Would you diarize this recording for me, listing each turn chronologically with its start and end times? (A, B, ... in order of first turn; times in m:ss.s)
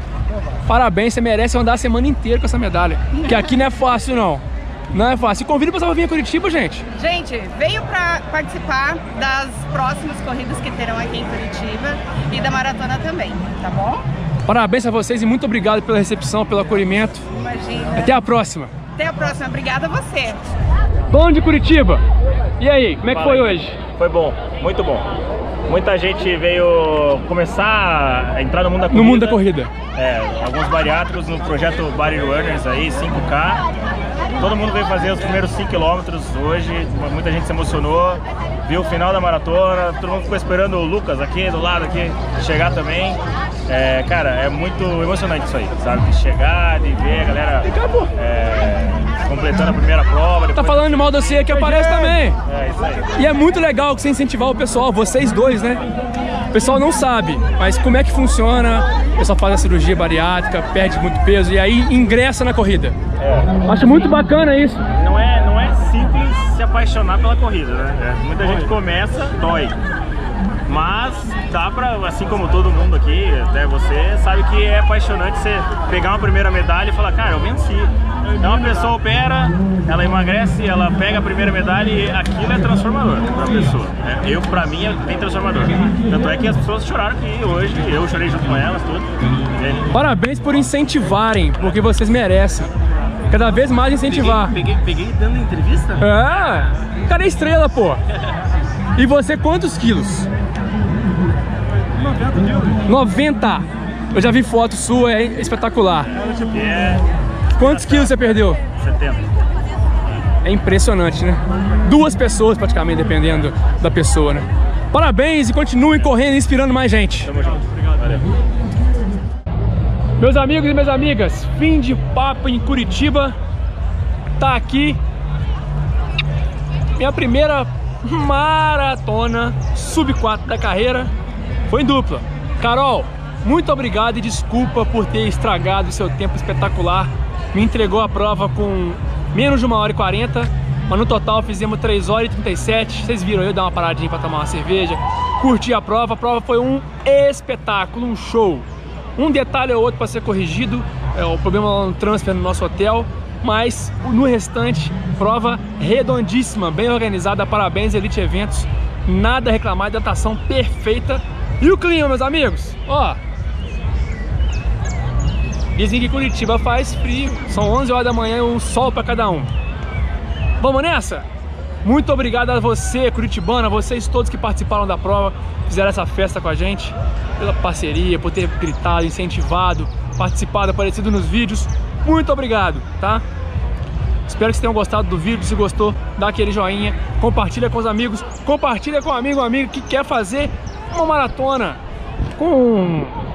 0:00.6-0:06.8 A
0:03.1-0:03.6 B
0:07.0-0:14.0 B
0:14.5-0:17.2 A
0:17.4-0:18.1 B
0:18.0-0:18.7 A
0:19.0-0:20.4 B
0:21.1-0:22.0 A
0:22.6-0:23.8 A
0:23.0-0:25.1 C
0:25.7-0:29.4 C
0:28.9-0:29.7 A
0:30.0-0:33.6 C
0:34.4-0:51.9 C
0:47.6-0:48.1 A
0:50.5-0:52.4 A
0:52.5-0:53.2 C
0:53.2-0:55.8 A
0:56.5-1:03.0 A
1:03.2-1:03.5 C
1:03.6-1:04.8 A
1:05.0-1:09.8 C
1:10.7-1:29.9 C
1:29.9-1:32.7 A
1:33.3-1:34.6 A
1:34.0-1:36.1 D
1:36.0-1:38.0 A
1:39.0-1:40.3 A
1:42.9-1:46.1 A
1:46.3-1:47.0 C
1:47.6-1:48.6 A
1:47.6-1:49.2 C
1:50.4-1:57.3 A
1:57.2-1:58.3 C
2:00.2-2:03.4 A
2:04.4-2:05.0 A
2:07.0-2:11.1 A
2:11.7-2:43.2 A
2:45.8-2:49.5 A
2:50.6-2:51.2 A
2:51.8-3:03.2 A
3:04.3-3:11.8 A
3:12.4-3:13.1 A